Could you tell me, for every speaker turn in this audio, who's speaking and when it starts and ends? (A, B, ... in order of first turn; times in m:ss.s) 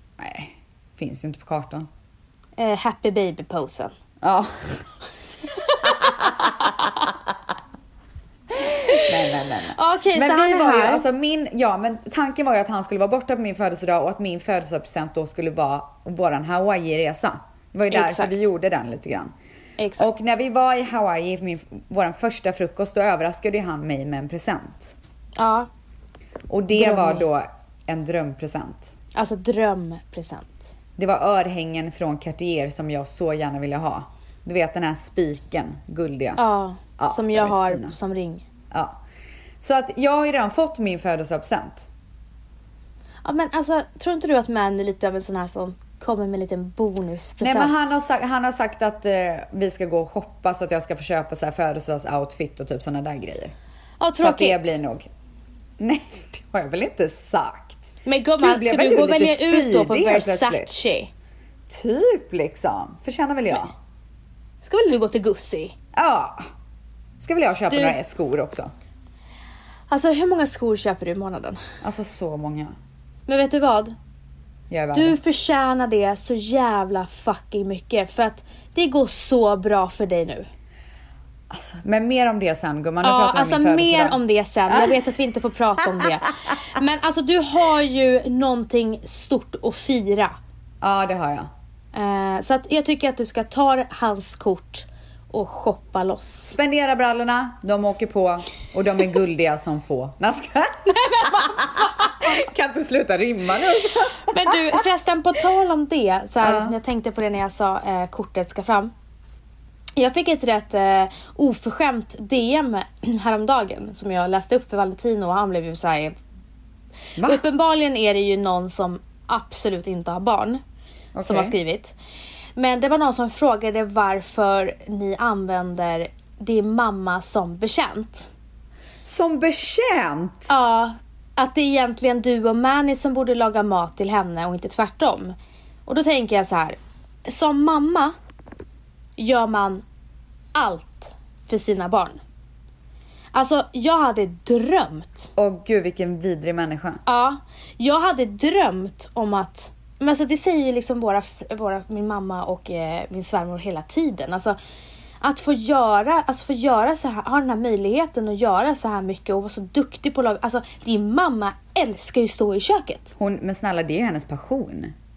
0:00.2-0:01.9 A
0:02.6-0:03.9 B
0:04.2-0:04.9 A
0:05.6-0:07.0 B
0:05.8-0:07.1 A
0:08.8-0:11.0 B
0:08.9-0:19.3 A
0:17.9-0:18.4 B
0:19.8-0:20.0 B
0:20.0-0:24.9 A
0:25.4-0:25.7 B
0:26.5-0:28.9 A
0:26.7-0:27.2 B
0:29.1-0:30.7 B
0:31.0-0:36.4 A
0:36.4-0:38.4 B
0:37.0-0:37.9 A
0:38.7-0:39.0 A
0:39.6-0:41.9 A
0:43.2-0:47.8 B
0:47.4-0:53.5 A
0:54.0-0:54.6 B
0:54.2-0:55.1 A
0:55.8-1:00.7 A
0:58.0-1:01.1 B
1:01.7-1:03.7 A
1:04.6-1:05.7 B
1:05.9-1:06.5 A
1:07.2-1:08.7 A
1:07.7-1:08.0 B
1:09.9-1:11.6 B
1:11.8-1:12.7 A
1:13.3-1:14.0 B
1:14.7-1:15.2 A
1:14.9-1:20.5 B
1:21.5-1:25.0 A
1:23.0-1:30.3 B
1:30.8-1:31.5 A
1:31.9-1:36.5 B
1:36.4-1:44.8 A
1:40.9-1:42.4 B
1:44.1-1:48.9 B
1:46.4-1:46.7 A
1:50.0-1:56.1 B
1:57.2-1:57.4 A
1:57.2-2:00.6 B
2:01.1-2:01.5 A
2:01.2-2:02.0 B
2:02.6-2:08.3 B
2:09.0-2:10.5 A
2:10.5-2:15.3 B
2:15.8-2:18.1 B
2:19.2-2:19.8 B
2:20.5-2:22.2 B
2:23.3-2:25.3 B
2:25.4-2:27.0 A
2:27.0-2:34.6 B
2:35.2-2:43.1 B
2:43.2-2:44.9 A